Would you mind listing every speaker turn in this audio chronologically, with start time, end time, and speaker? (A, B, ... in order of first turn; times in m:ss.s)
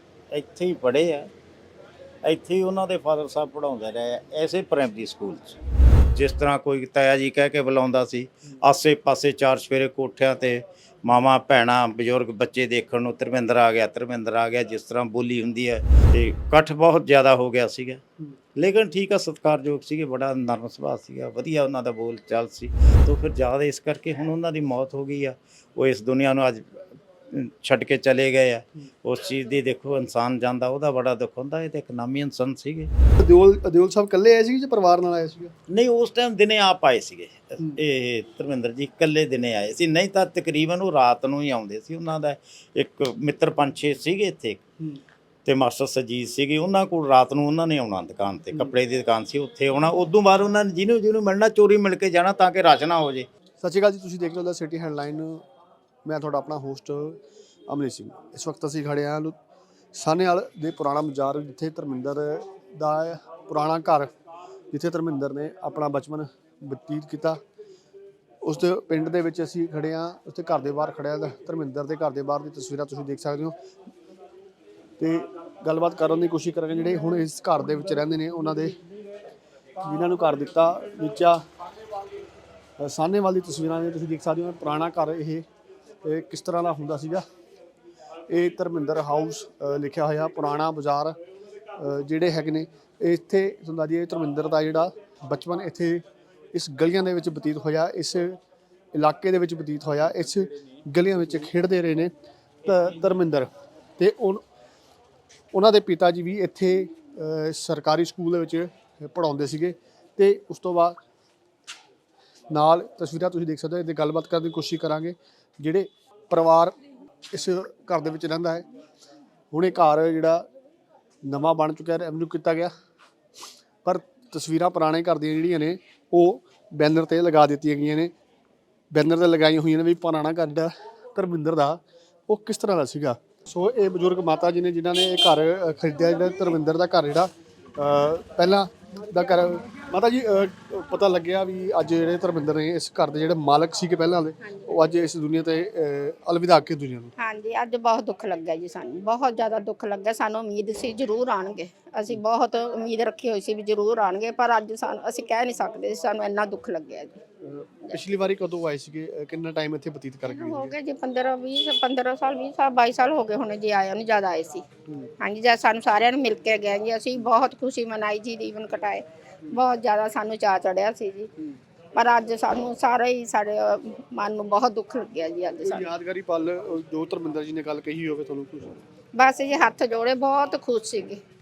0:00.3-0:01.3 A
0:02.2-0:05.6 A
0:06.2-0:18.0 A
0:18.6-0:32.9 A
0:33.2-0:35.5 B
0:35.7-0:44.6 A
0:45.4-0:53.3 A
0:53.6-0:55.4 B
0:56.0-0:59.3 B
0:59.9-1:04.1 B
1:04.7-1:07.4 B
1:08.4-1:13.6 B
1:15.0-1:18.8 B
1:19.8-1:21.4 B
1:22.8-1:25.4 B
1:26.0-1:27.2 B
1:28.3-1:31.2 B
1:31.8-1:38.4 B
1:38.9-1:42.1 B
1:42.6-1:44.4 B
1:45.5-1:51.0 B
1:52.5-1:56.8 B
1:57.3-1:58.6 B
1:59.5-2:00.4 B
2:01.2-2:02.7 B
2:03.8-2:08.1 B
2:08.9-2:27.1 B
2:24.4-2:24.8 C
2:27.2-2:37.2 C
2:37.4-2:40.7 B
2:40.2-2:44.6 C
2:45.2-2:51.3 C
2:51.9-2:55.9 C
2:55.6-2:58.7 B
2:59.2-3:01.2 C